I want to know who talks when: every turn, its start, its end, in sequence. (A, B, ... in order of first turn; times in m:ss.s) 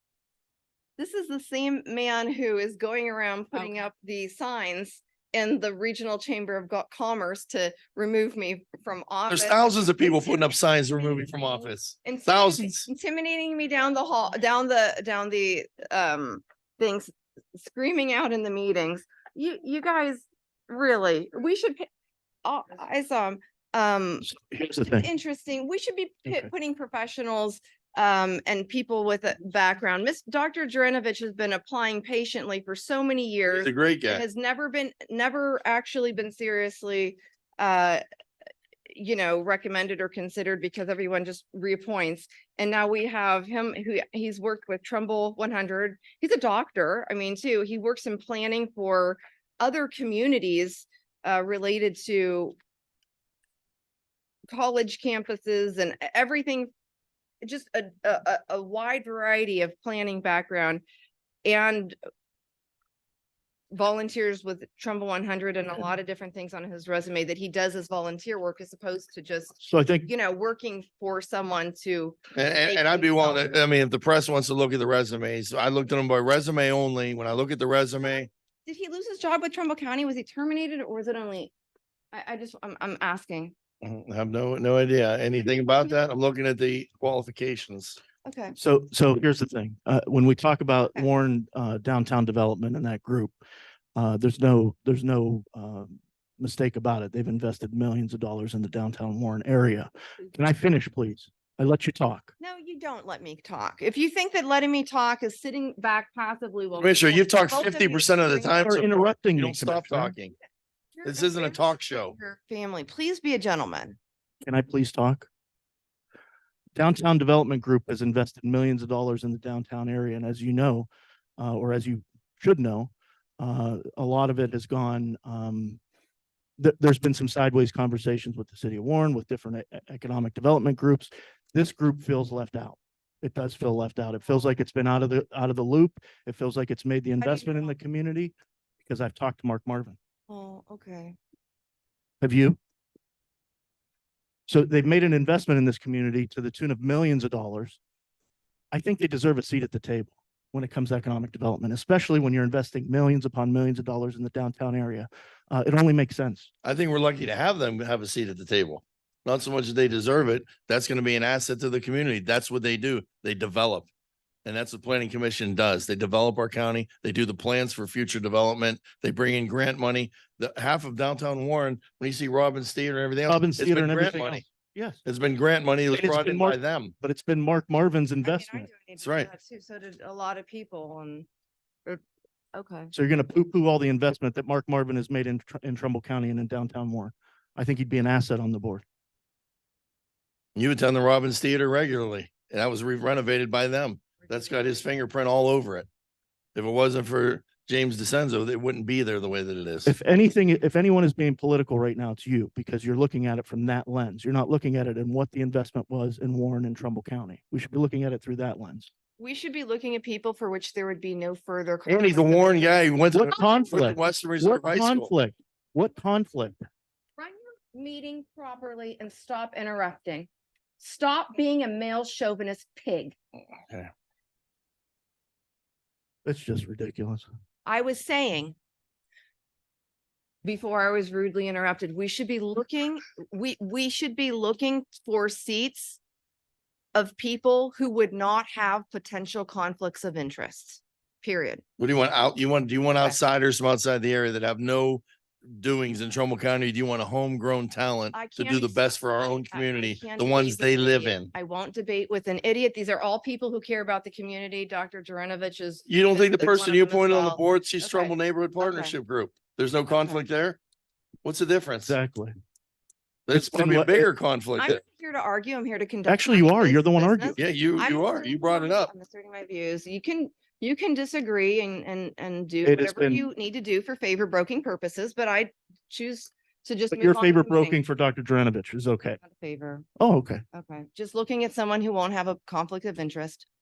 0:01.0-0:21.9 A
0:09.3-0:12.9 B
0:22.4-0:24.3 A
0:24.3-0:25.1 C
0:25.0-0:38.0 A
0:33.5-0:34.2 B
0:38.9-0:52.6 A
0:54.5-0:56.7 A
0:57.4-1:00.8 A
1:01.4-1:02.0 A
1:03.7-1:13.5 A
1:09.6-1:10.1 C
1:12.4-1:18.3 B
1:18.7-1:21.5 A
1:22.1-1:23.5 A
1:23.8-1:28.0 B
1:28.2-1:28.6 A
1:28.6-1:33.4 C
1:34.0-1:42.3 C
1:42.4-1:48.8 A
1:46.8-1:50.4 B
1:48.6-1:50.1 C
1:51.0-1:54.0 A
1:51.0-1:52.2 B
1:54.4-1:55.3 C
1:56.8-2:05.8 C
2:06.6-2:20.0 C
2:17.2-2:17.8 A
2:20.3-2:21.2 A
2:22.2-2:22.6 C
2:24.5-2:27.8 C
2:28.7-2:36.5 C
2:36.6-2:43.9 B
2:44.5-2:54.4 B
2:53.3-2:55.0 C
2:55.0-2:56.9 B
2:55.9-2:58.7 C
2:58.2-3:01.3 A
2:59.0-2:59.3 B
3:02.5-3:02.9 A
3:02.9-3:08.8 C
3:10.6-3:15.9 B
3:14.2-3:14.8 A
3:16.6-3:19.9 B
3:19.8-3:28.9 C
3:29.2-3:34.0 A
3:31.9-3:35.1 B
3:33.1-3:36.7 C
3:37.2-3:43.2 A
3:46.2-3:47.3 C
3:47.7-3:48.6 A
3:50.4-3:56.0 A
3:56.9-4:01.6 A
4:01.8-4:11.3 B
4:08.1-4:19.0 A
4:15.9-4:20.6 B
4:21.2-4:22.0 B
4:21.9-4:22.3 C
4:23.3-4:24.8 B
4:23.3-4:24.1 C
4:24.6-4:37.8 A
4:26.1-4:27.4 C
4:27.4-4:28.9 B
4:32.6-4:33.2 C
4:36.9-4:39.2 C
4:39.2-4:39.9 A
4:40.0-4:40.4 C
4:40.5-4:43.5 A